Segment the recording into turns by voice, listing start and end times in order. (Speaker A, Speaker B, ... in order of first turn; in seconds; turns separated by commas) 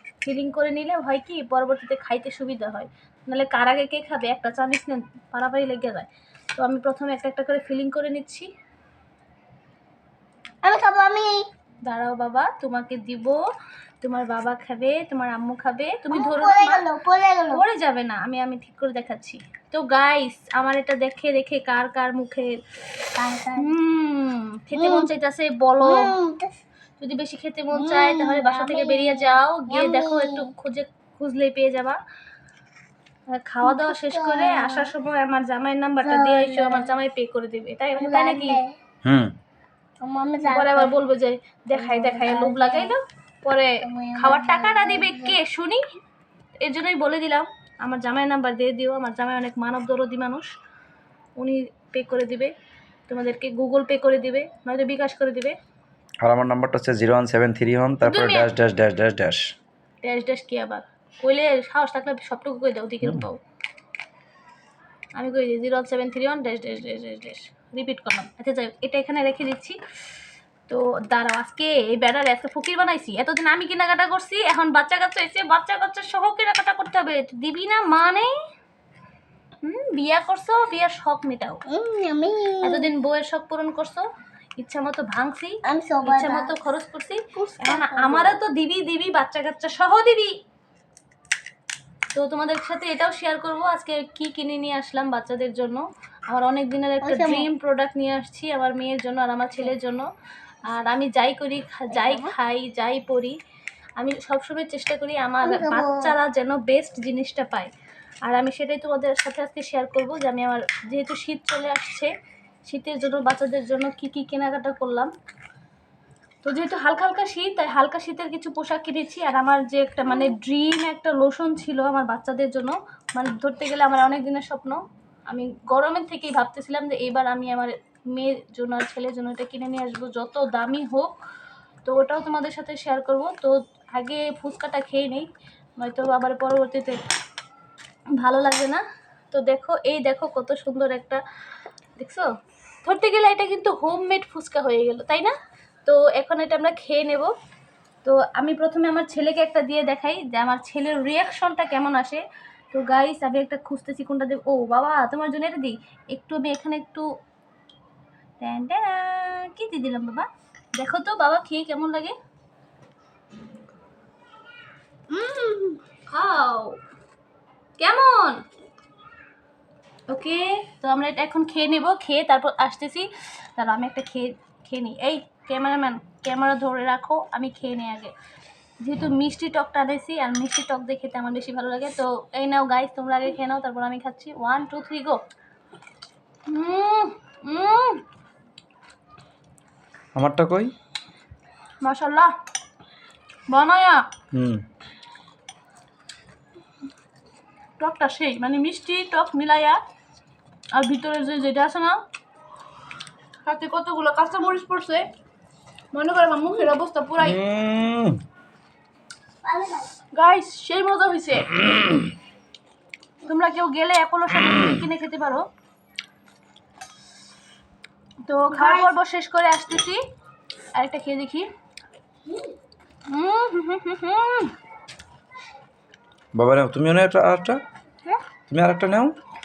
Speaker A: 0.2-8.5, Speaker B: 10.6-11.4, Speaker A: 11.9-13.4, Speaker A: 14.0-16.9, Speaker B: 16.1-17.6, Speaker A: 17.5-22.6, Speaker B: 23.2-23.7, Speaker A: 23.6-26.1, Speaker B: 24.8-25.1, Speaker B: 25.8-26.6, Speaker A: 27.0-32.0, Speaker B: 27.7-30.5, Speaker A: 33.3-38.6, Speaker B: 33.6-34.9, Speaker B: 36.0-36.9, Speaker B: 38.0-38.7, Speaker C: 39.0-39.4, Speaker B: 40.0-40.9, Speaker A: 40.5-45.8, Speaker B: 41.7-43.0, Speaker B: 43.8-45.4, Speaker A: 46.6-50.5, Speaker A: 51.4-52.5, Speaker A: 53.1-55.6, Speaker C: 56.2-59.5, Speaker A: 58.0-58.5, Speaker A: 60.0-63.4, Speaker A: 65.2-69.8, Speaker A: 70.7-78.3, Speaker A: 79.6-81.6, Speaker B: 81.7-82.9, Speaker A: 82.6-84.1, Speaker A: 84.6-90.4, Speaker B: 85.7-86.5, Speaker B: 87.3-88.4, Speaker A: 92.1-100.1, Speaker B: 97.0-97.5, Speaker A: 100.7-103.4, Speaker B: 101.9-102.3, Speaker A: 104.0-107.7, Speaker B: 105.4-106.1, Speaker A: 108.3-112.1, Speaker A: 112.7-115.1, Speaker A: 116.4-131.1, Speaker A: 131.9-137.0, Speaker A: 138.2-141.2, Speaker A: 142.0-142.3, Speaker A: 142.8-145.3, Speaker A: 145.8-147.3, Speaker A: 148.0-157.1, Speaker A: 158.4-162.1, Speaker B: 165.1-165.8, Speaker A: 166.1-166.8, Speaker A: 167.8-168.4, Speaker A: 170.1-178.1, Speaker A: 178.8-185.2, Speaker A: 186.5-188.0, Speaker C: 190.2-190.7, Speaker A: 191.8-192.3, Speaker A: 193.5-194.0, Speaker C: 194.3-194.6, Speaker A: 197.8-199.8, Speaker A: 200.7-202.0, Speaker A: 203.4-205.1, Speaker A: 205.9-207.4, Speaker C: 207.2-208.2, Speaker B: 209.4-209.9, Speaker A: 210.2-211.6, Speaker A: 213.2-215.5, Speaker A: 218.3-220.0, Speaker B: 218.5-218.9, Speaker A: 220.8-221.5, Speaker A: 223.1-224.5, Speaker C: 226.3-227.6, Speaker C: 228.5-229.2